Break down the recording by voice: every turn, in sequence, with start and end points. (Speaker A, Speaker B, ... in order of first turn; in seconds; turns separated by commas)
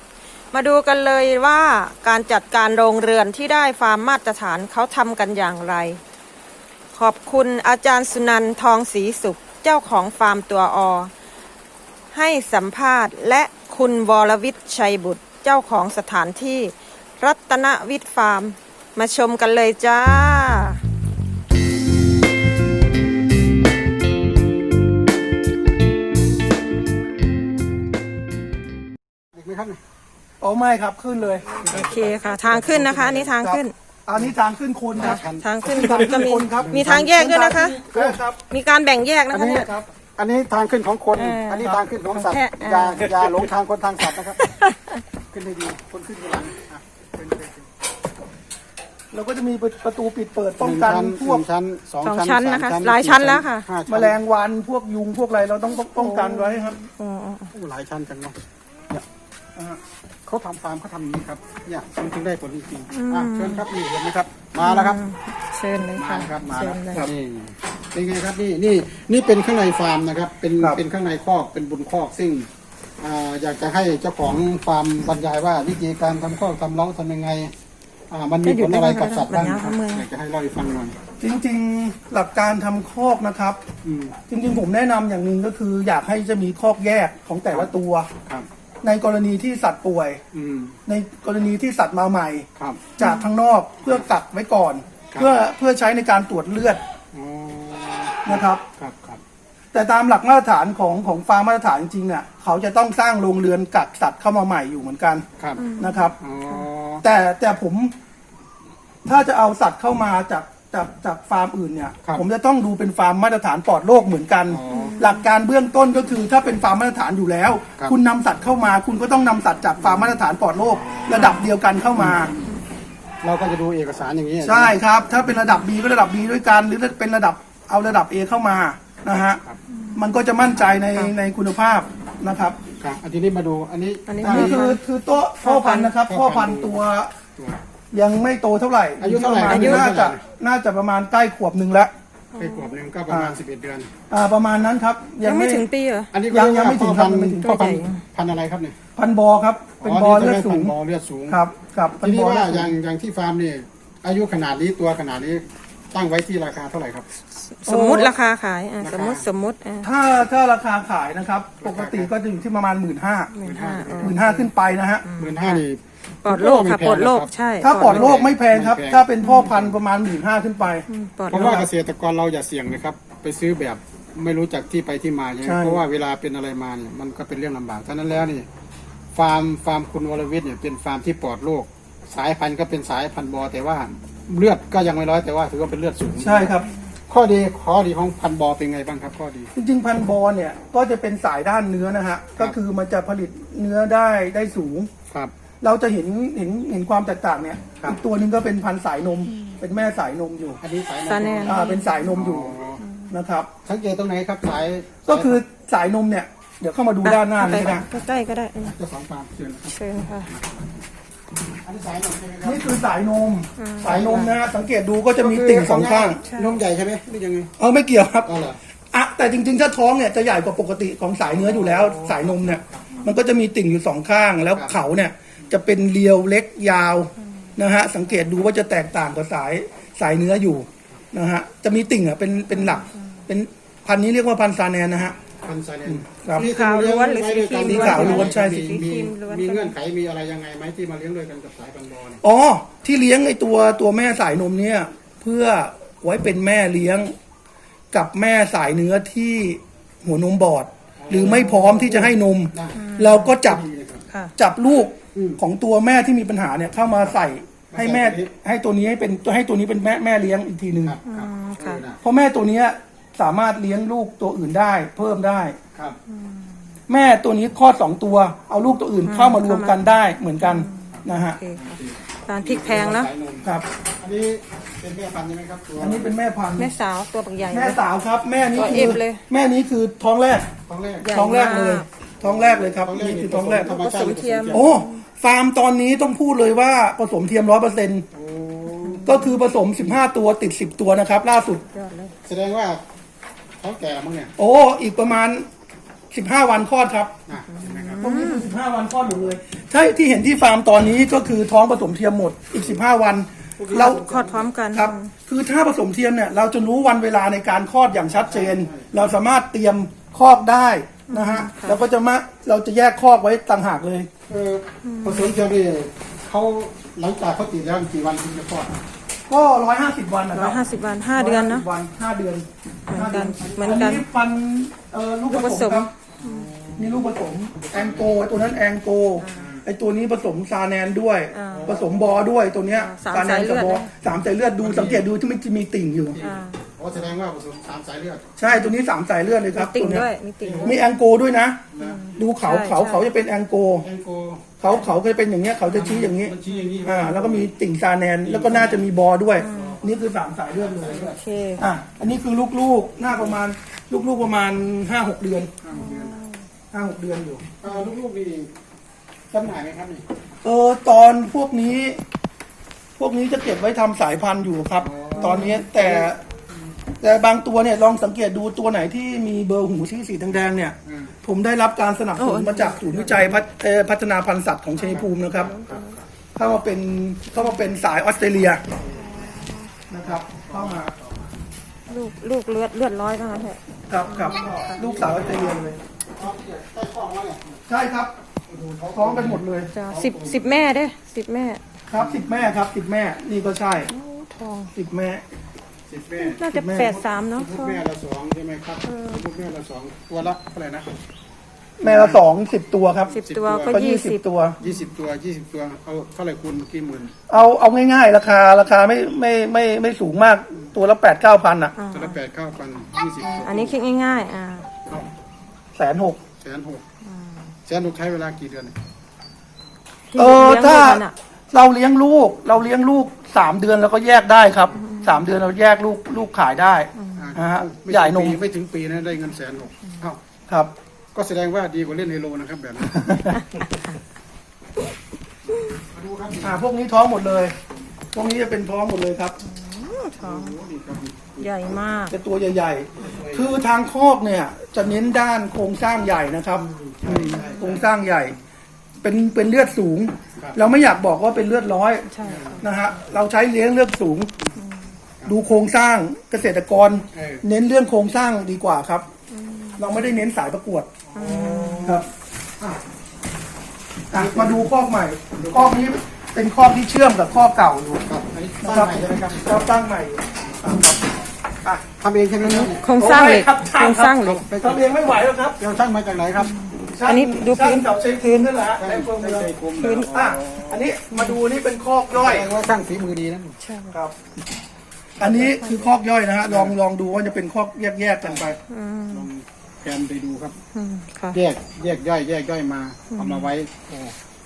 Speaker A: 0.5-6.0, Speaker A: 6.9-11.1, Speaker A: 12.1-20.8, Speaker B: 29.3-29.8, Speaker C: 30.4-31.6, Speaker B: 31.6-33.3, Speaker A: 31.6-33.7, Speaker C: 33.4-38.4, Speaker B: 34.9-37.2, Speaker A: 35.0-37.8, Speaker B: 37.8-38.2, Speaker A: 38.5-39.7, Speaker B: 39.3-44.4, Speaker C: 39.5-39.8, Speaker A: 41.1-43.3, Speaker A: 44.4-45.0, Speaker B: 45.3-47.7, Speaker C: 49.1-51.4, Speaker B: 50.6-54.1, Speaker A: 52.0-53.7, Speaker C: 53.9-56.8, Speaker A: 55.9-57.5, Speaker B: 57.5-58.4, Speaker B: 60.2-65.0, Speaker A: 62.9-63.6, Speaker A: 64.6-67.0, Speaker B: 65.8-72.5, Speaker B: 73.0-77.5, Speaker B: 78.1-81.0, Speaker A: 78.4-80.1, Speaker C: 81.2-83.6, Speaker B: 83.8-84.2, Speaker C: 84.2-88.1, Speaker C: 88.8-90.2, Speaker B: 90.3-90.8, Speaker C: 90.9-96.8, Speaker B: 92.6-93.0, Speaker A: 93.0-93.3, Speaker B: 97.1-99.2, Speaker C: 98.2-98.6, Speaker C: 99.7-105.3, Speaker A: 105.6-106.6, Speaker C: 105.8-106.2, Speaker B: 106.2-107.0, Speaker C: 107.0-107.9, Speaker C: 109.0-122.3, Speaker B: 114.5-115.0, Speaker A: 114.7-115.2, Speaker B: 119.8-120.2, Speaker B: 120.7-121.3, Speaker A: 121.1-121.4, Speaker B: 122.0-122.5, Speaker B: 123.2-124.8, Speaker C: 124.4-129.4, Speaker A: 129.8-130.1, Speaker C: 129.9-132.6, Speaker B: 132.8-134.6, Speaker A: 134.1-134.8, Speaker C: 134.2-137.1, Speaker A: 135.4-135.9, Speaker B: 136.1-136.8, Speaker B: 137.3-137.6, Speaker C: 137.9-141.9, Speaker B: 139.0-140.2, Speaker A: 139.5-139.9, Speaker A: 142.3-142.7, Speaker B: 142.3-143.9, Speaker C: 143.1-143.4, Speaker C: 144.1-145.6, Speaker A: 145.2-146.1, Speaker B: 146.1-147.4, Speaker C: 146.3-147.8, Speaker A: 147.4-148.0, Speaker B: 148.1-148.8, Speaker C: 148.9-150.7, Speaker B: 149.8-151.4, Speaker C: 151.3-152.7, Speaker B: 152.0-157.1, Speaker A: 157.5-159.9, Speaker C: 157.7-158.1, Speaker B: 158.8-159.3, Speaker C: 159.8-163.4, Speaker B: 161.6-162.1, Speaker A: 163.3-164.5, Speaker B: 163.4-164.2, Speaker C: 164.0-165.1, Speaker A: 165.0-165.6, Speaker B: 165.2-169.8, Speaker A: 166.2-168.2, Speaker C: 167.6-171.7, Speaker A: 169.2-169.5, Speaker A: 170.9-171.6, Speaker B: 171.3-178.5, Speaker C: 175.4-175.8, Speaker B: 179.1-189.5, Speaker C: 186.2-186.7, Speaker C: 189.5-194.9, Speaker C: 195.6-200.6, Speaker A: 199.2-199.6, Speaker B: 200.6-202.8, Speaker A: 201.1-202.1, Speaker C: 201.4-202.6, Speaker A: 202.8-203.1, Speaker C: 203.1-203.5, Speaker B: 203.6-205.4, Speaker C: 205.0-207.8, Speaker A: 207.0-208.7, Speaker B: 208.6-210.8, Speaker A: 209.7-210.3, Speaker B: 211.6-212.7, Speaker C: 212.4-216.2, Speaker A: 213.6-214.3, Speaker B: 213.8-214.3, Speaker B: 215.2-217.5, Speaker A: 216.2-216.6, Speaker C: 217.6-218.3, Speaker B: 218.2-218.6, Speaker C: 218.9-235.2, Speaker B: 221.2-222.9, Speaker A: 232.6-233.0, Speaker B: 235.4-242.2, Speaker C: 235.8-236.5, Speaker A: 236.3-239.7, Speaker C: 237.6-238.8, Speaker C: 242.2-247.1, Speaker C: 247.9-253.6, Speaker B: 251.0-252.8, Speaker A: 252.7-253.4, Speaker B: 253.4-254.0, Speaker C: 254.3-261.0, Speaker B: 255.1-255.4, Speaker B: 257.7-258.3, Speaker B: 260.8-262.0, Speaker A: 261.1-261.8, Speaker C: 262.0-265.6, Speaker A: 266.1-266.5, Speaker C: 266.9-271.4, Speaker A: 269.0-273.1, Speaker B: 271.5-276.1, Speaker C: 275.8-276.7, Speaker A: 276.6-277.8, Speaker C: 277.5-280.5, Speaker A: 278.5-279.2, Speaker B: 280.7-281.6, Speaker A: 281.0-281.9, Speaker C: 281.1-283.8, Speaker B: 282.2-284.8, Speaker A: 283.6-285.0, Speaker C: 284.5-288.1, Speaker B: 288.1-289.2, Speaker A: 288.8-289.3, Speaker C: 289.0-291.6, Speaker A: 291.7-292.1, Speaker B: 292.2-292.8, Speaker B: 293.6-294.3, Speaker C: 294.4-295.5, Speaker C: 296.1-297.2, Speaker B: 297.3-298.1, Speaker A: 297.5-298.5, Speaker C: 298.0-304.0, Speaker B: 303.6-304.5, Speaker A: 303.7-305.1, Speaker C: 304.7-314.1, Speaker B: 308.1-308.9, Speaker A: 311.1-311.8, Speaker B: 314.3-318.8, Speaker A: 314.8-315.4, Speaker C: 319.3-320.6, Speaker A: 320.3-321.6, Speaker C: 321.1-325.9, Speaker A: 322.9-324.1, Speaker B: 323.4-323.7, Speaker A: 325.3-326.5, Speaker B: 326.2-327.1, Speaker C: 326.8-336.2, Speaker B: 327.6-328.2, Speaker A: 329.2-329.5, Speaker B: 329.3-329.6, Speaker A: 331.3-331.8, Speaker B: 331.5-332.1, Speaker A: 332.7-333.9, Speaker B: 334.6-335.1, Speaker B: 336.1-338.2, Speaker A: 336.2-336.6, Speaker C: 338.4-340.1, Speaker A: 338.5-338.8, Speaker A: 339.5-340.9, Speaker B: 340.4-340.8, Speaker C: 340.6-343.9, Speaker B: 341.7-342.0, Speaker A: 341.8-343.1, Speaker B: 343.8-344.6, Speaker C: 344.6-351.1, Speaker B: 345.7-347.5, Speaker B: 348.2-348.9, Speaker A: 349.4-349.8, Speaker B: 349.5-349.9, Speaker B: 350.5-351.2, Speaker A: 351.0-351.7, Speaker C: 351.6-355.5, Speaker B: 353.0-353.4, Speaker B: 355.6-356.2, Speaker A: 355.7-356.4, Speaker C: 356.7-357.6, Speaker B: 357.6-358.5, Speaker A: 357.6-357.9, Speaker B: 359.3-360.0, Speaker C: 360.4-362.0, Speaker C: 363.0-366.2, Speaker B: 364.8-366.1, Speaker A: 365.1-365.6, Speaker C: 367.0-375.5, Speaker B: 370.8-371.1, Speaker A: 372.2-373.4, Speaker A: 374.8-376.0, Speaker C: 376.4-378.6, Speaker A: 378.9-379.7, Speaker C: 379.9-380.9, Speaker B: 380.0-381.1, Speaker A: 381.9-385.0, Speaker C: 383.9-385.8, Speaker B: 384.1-387.6, Speaker C: 387.7-388.1, Speaker B: 388.5-390.6, Speaker C: 388.9-389.7, Speaker A: 389.7-391.6, Speaker C: 391.9-393.9, Speaker B: 391.9-392.6, Speaker A: 393.9-394.7, Speaker C: 394.7-395.2, Speaker B: 395.9-396.4, Speaker A: 396.2-397.8, Speaker C: 396.3-397.0, Speaker B: 397.4-400.9, Speaker A: 398.8-399.2, Speaker C: 401.8-403.1, Speaker B: 401.8-402.2, Speaker B: 403.1-403.8, Speaker A: 403.1-404.9, Speaker C: 403.7-404.6, Speaker B: 404.6-407.2, Speaker C: 407.3-411.8, Speaker A: 411.8-412.2, Speaker B: 411.9-413.7, Speaker A: 413.3-414.7, Speaker C: 415.8-416.2, Speaker B: 416.4-416.8, Speaker A: 417.0-417.5, Speaker B: 417.6-418.8, Speaker A: 420.1-421.1, Speaker C: 420.1-428.4, Speaker A: 424.7-425.3, Speaker A: 426.9-427.3, Speaker B: 427.1-430.2, Speaker B: 431.1-433.2, Speaker C: 432.9-433.4, Speaker A: 433.4-433.8, Speaker B: 435.7-436.6, Speaker C: 436.4-437.6, Speaker C: 438.1-439.4, Speaker A: 439.4-440.5, Speaker B: 440.2-441.5, Speaker A: 441.4-442.1, Speaker C: 442.1-448.4, Speaker B: 442.9-443.6, Speaker B: 446.5-448.4, Speaker C: 449.0-454.3, Speaker B: 450.4-450.6, Speaker A: 452.1-452.7, Speaker B: 452.2-452.6, Speaker A: 454.6-454.9, Speaker C: 455.2-459.1, Speaker B: 457.1-457.4, Speaker A: 459.3-460.1, Speaker C: 459.8-461.0, Speaker B: 461.1-462.1, Speaker A: 461.1-462.0, Speaker C: 464.1-468.1, Speaker B: 464.1-464.7, Speaker B: 465.4-465.7, Speaker B: 468.0-469.7, Speaker C: 468.6-471.0, Speaker B: 471.8-472.8, Speaker A: 472.4-474.4, Speaker C: 472.9-475.6, Speaker B: 474.2-474.9, Speaker B: 475.6-476.5, Speaker A: 476.5-478.6, Speaker C: 476.9-482.5, Speaker B: 478.8-480.9, Speaker A: 479.8-480.1, Speaker B: 482.2-483.6, Speaker A: 483.6-484.0, Speaker B: 485.2-485.8, Speaker C: 485.2-488.6, Speaker B: 486.4-486.8, Speaker B: 488.2-488.5, Speaker A: 488.7-489.3, Speaker B: 489.1-490.6, Speaker A: 490.7-491.4, Speaker B: 491.3-494.1, Speaker A: 493.1-493.5